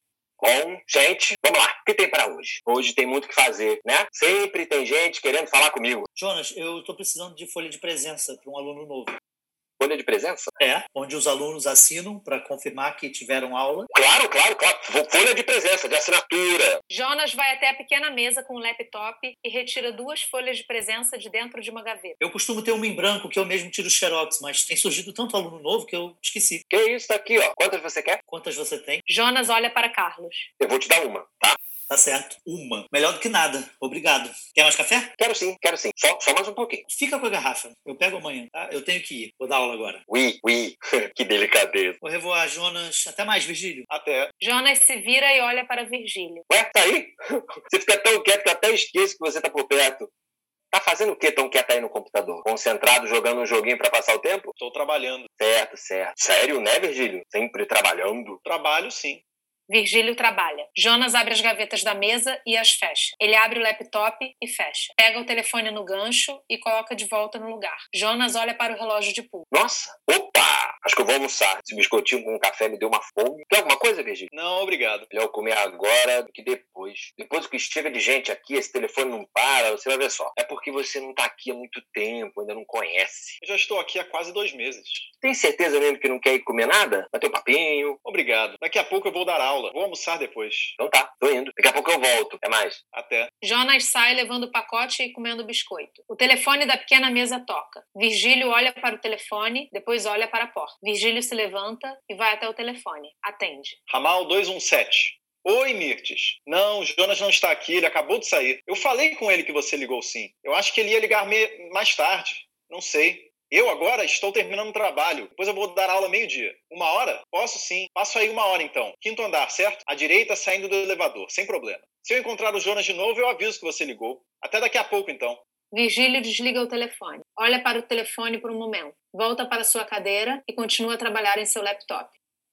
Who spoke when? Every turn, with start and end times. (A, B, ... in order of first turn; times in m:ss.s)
0:00.4-0:06.1 A
0:06.2-0:09.2 B
0:09.8-0:10.5 A
0:10.6-0:13.9 B
0:13.9-0:16.8 A
0:16.9-0:22.2 C
0:22.2-0:26.6 B
0:26.7-0:28.2 A
0:28.3-0:29.0 B
0:29.1-0:30.5 C
0:30.6-0:31.6 A
0:31.9-0:35.1 B
0:35.2-0:36.8 A
0:36.9-0:40.0 B
0:40.1-0:42.0 A
0:42.0-0:43.9 B
0:43.9-0:44.3 D
0:44.4-0:46.4 C
0:46.5-0:50.1 A
0:50.7-0:54.5 A
0:54.6-0:55.3 D
0:55.4-0:58.4 A
0:58.4-0:59.2 D
0:59.7-1:09.5 C
1:09.5-1:14.3 A
1:14.3-1:15.1 D
1:15.1-1:23.4 A
1:23.4-1:25.1 D
1:25.2-1:28.0 A
1:28.0-1:30.8 D
1:30.8-1:32.8 A
1:32.9-1:33.3 D
1:33.4-1:43.8 C
1:43.9-2:05.4 D
2:05.7-2:12.1 C